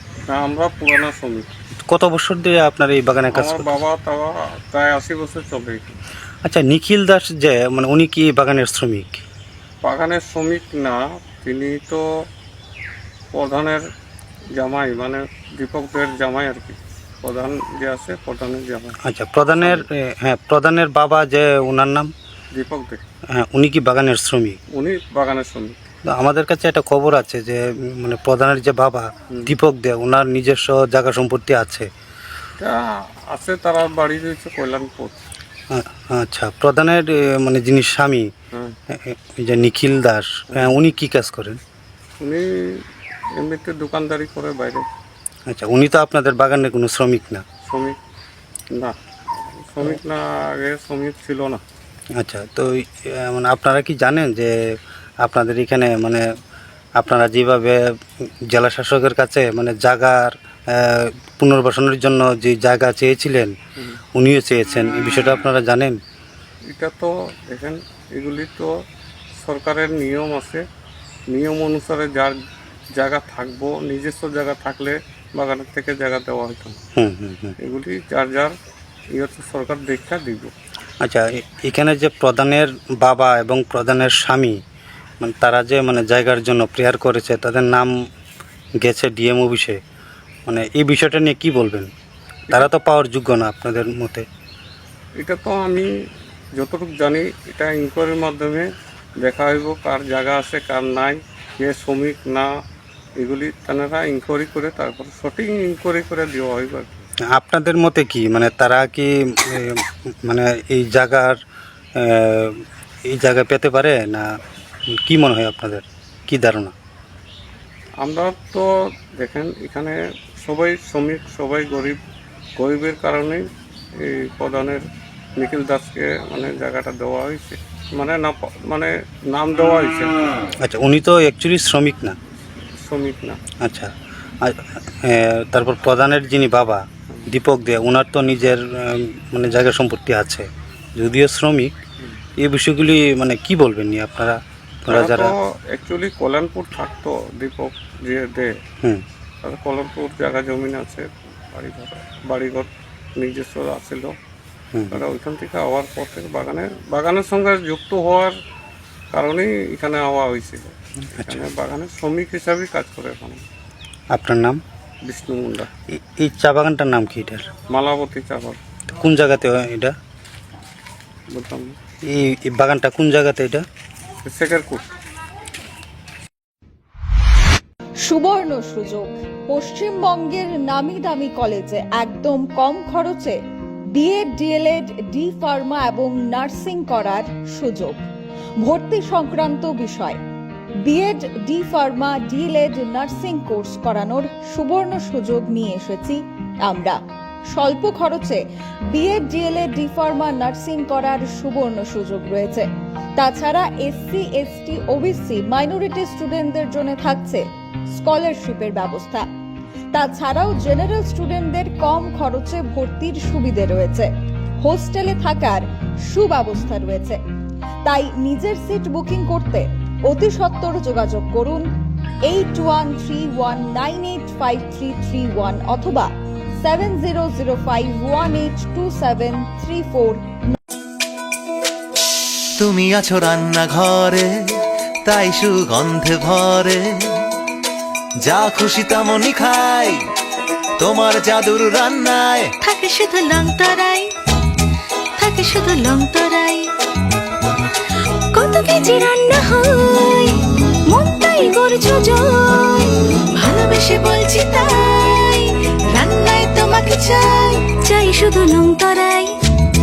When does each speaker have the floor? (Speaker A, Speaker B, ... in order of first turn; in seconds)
Speaker A: 0.3-1.5, 3.3-6.0, 9.8-12.1, 13.3-13.8, 14.6-19.0, 19.6-19.8, 22.5-23.0, 24.7-25.8, 32.6-35.2, 40.5-40.8, 42.2-42.8, 43.4-44.9, 47.7-48.0, 48.7-51.6, 66.7-68.7, 69.4-70.6, 71.3-72.4, 73.0-76.8, 77.6-78.5, 79.1-80.5, 95.2-95.9, 96.6-98.7, 99.2-102.5, 103.2-107.1, 118.0-122.0, 122.6-124.8, 125.4-130.2, 132.8-133.4, 144.9-148.6, 149.4-154.1, 154.9-158.4, 159.1-163.4, 165.1-165.7, 167.7-168.6, 171.3-171.8, 174.2-174.9
Speaker B: 1.9-3.8, 6.4-9.2, 19.0-22.1, 23.3-24.6, 26.1-31.9, 35.7-38.3, 38.9-41.6, 45.5-47.5, 52.1-56.3, 57.0-57.9, 58.5-63.5, 64.1-66.0, 77.0-77.6, 81.0-84.6, 85.2-87.9, 88.8-89.8, 90.5-91.9, 92.5-94.3, 107.3-111.4, 112.0-114.3, 114.9-116.7, 130.6-132.2, 133.6-141.7, 142.4-145.3, 154.7-155.0, 164.1-164.6, 165.9-167.5, 168.9-170.0, 172.1-173.7
Speaker C: 178.1-183.4, 183.9-188.0, 188.6-190.2, 190.9-197.0, 197.5-198.4, 198.9-209.3, 209.9-214.1, 214.6-217.2, 217.8-221.7, 222.2-230.6
Speaker D: 232.6-234.3, 235.1-237.1, 238.2-240.0, 240.8-242.5
Speaker E: 242.6-244.1, 245.2-246.7, 248.3-250.4, 250.9-259.3